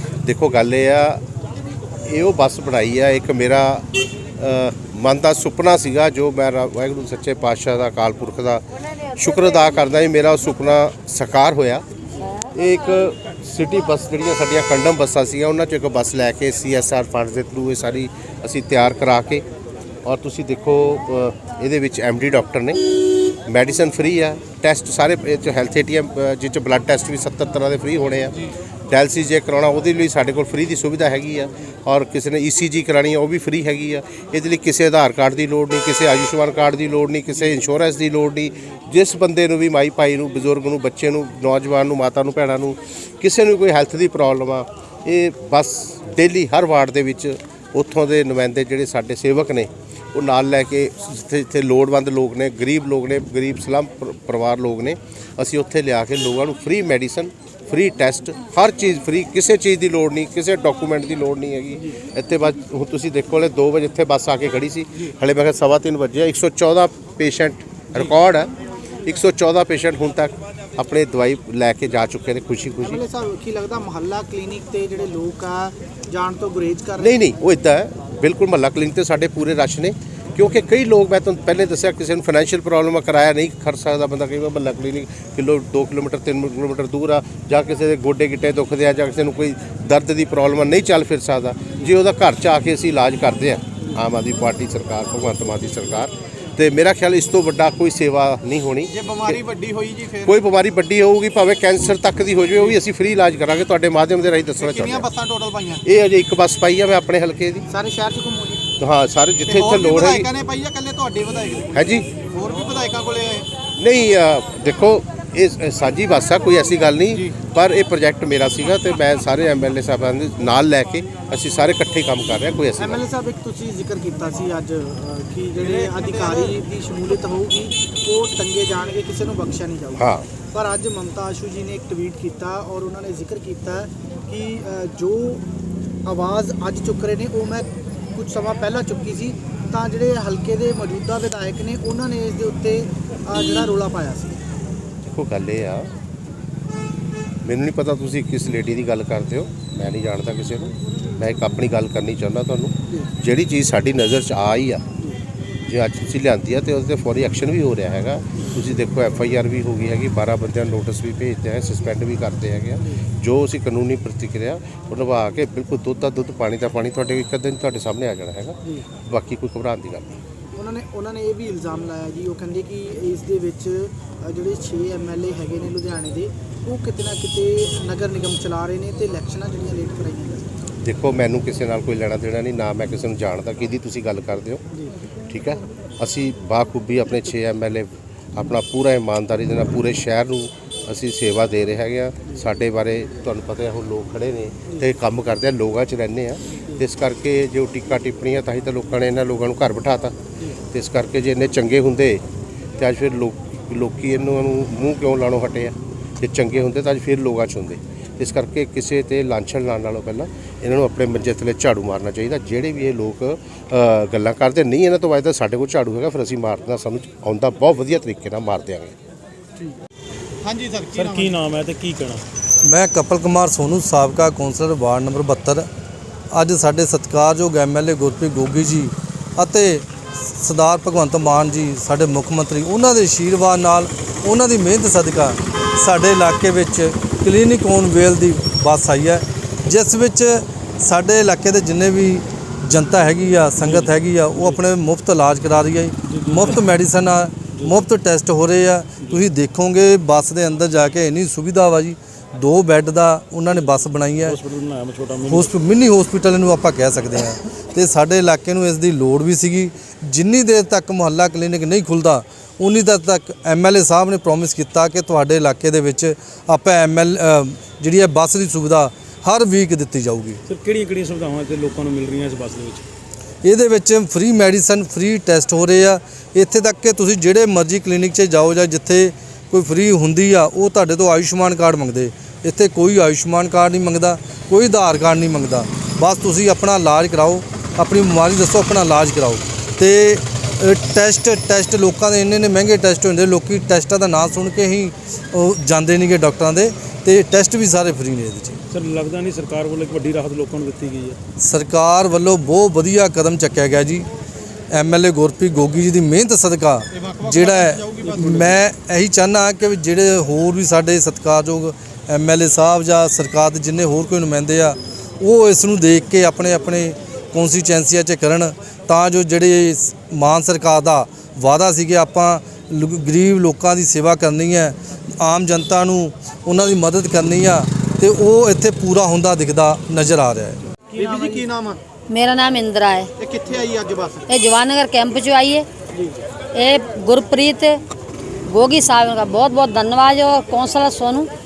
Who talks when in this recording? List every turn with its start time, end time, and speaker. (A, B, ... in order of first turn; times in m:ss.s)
0:00.2-0:01.2 A
0:02.0-0:11.8 A
0:12.5-0:19.4 A
0:20.0-1:08.5 A
1:09.0-1:13.0 A
1:12.8-1:17.2 B
1:17.0-1:39.4 A
1:38.9-1:40.3 C
1:40.2-1:45.1 A
1:44.6-1:45.8 C
1:45.8-1:47.6 A
1:47.7-1:48.7 B
1:48.8-1:50.3 A
1:49.4-1:53.5 C
1:51.7-1:52.1 A
1:53.8-2:03.0 A
2:02.8-2:15.4 B
2:05.6-2:06.5 C
2:10.0-2:10.3 A
2:16.0-2:24.4 B
2:25.0-2:25.9 A
2:27.4-2:34.8 A
2:35.7-2:50.2 A
2:50.5-3:00.6 B
3:00.8-3:04.6 A
3:05.3-3:20.2 A
3:20.7-3:22.2 A
3:22.8-3:38.9 A
3:40.4-3:41.4 C
3:40.9-3:42.2 D
3:42.6-3:45.7 E
3:46.3-4:14.4 E
4:03.6-4:04.6 D
4:06.0-4:06.6 D
4:07.5-4:07.8 D
4:14.2-4:15.5 D
4:15.3-4:30.4 E
4:30.5-4:32.8 D
4:33.4-4:58.6 E
4:58.7-5:01.2 D
5:01.4-5:04.1 E
5:04.7-5:30.6 E
5:06.9-5:08.3 C
5:08.3-5:08.5 D
5:30.9-5:31.5 B
5:31.0-5:31.8 C
5:32.1-5:33.1 F
5:33.2-5:34.3 C
5:34.3-5:35.6 F
5:35.9-5:36.2 B
5:36.5-5:37.8 F
5:38.5-5:41.3 F